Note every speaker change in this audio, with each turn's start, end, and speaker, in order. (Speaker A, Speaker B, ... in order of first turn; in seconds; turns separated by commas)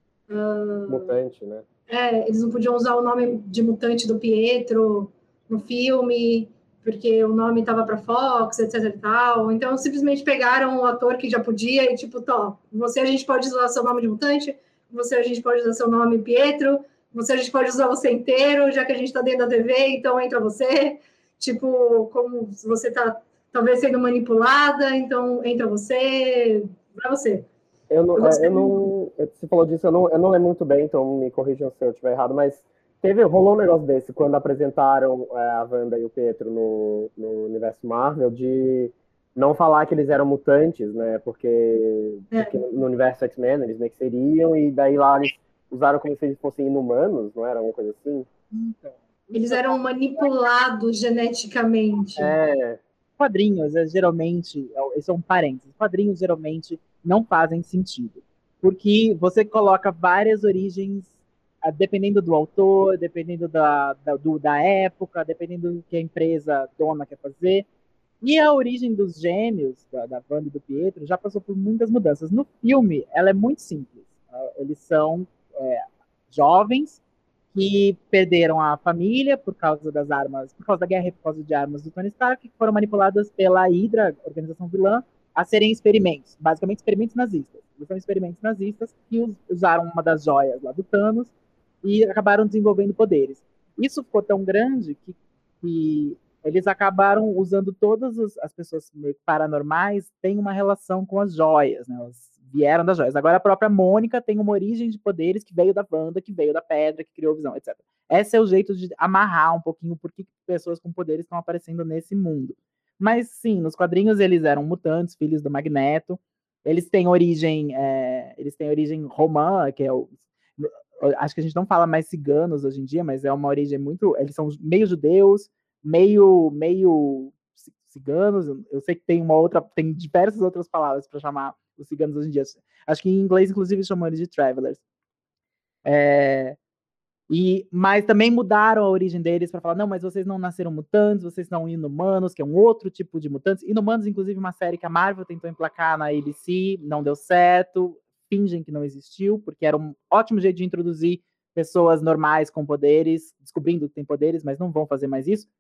Speaker A: 0.3-1.2, Speaker B: 0.9-1.7, Speaker A: 1.9-27.5, Speaker B: 27.9-48.3, Speaker A: 28.2-28.8, Speaker A: 42.3-42.6, Speaker C: 48.5-49.5, Speaker A: 49.3-52.4, Speaker B: 52.2-52.8, Speaker C: 53.2-67.7, Speaker C: 68.2-77.0, Speaker C: 77.5-91.3, Speaker C: 91.8-134.8, Speaker C: 135.8-136.6, Speaker C: 137.3-155.5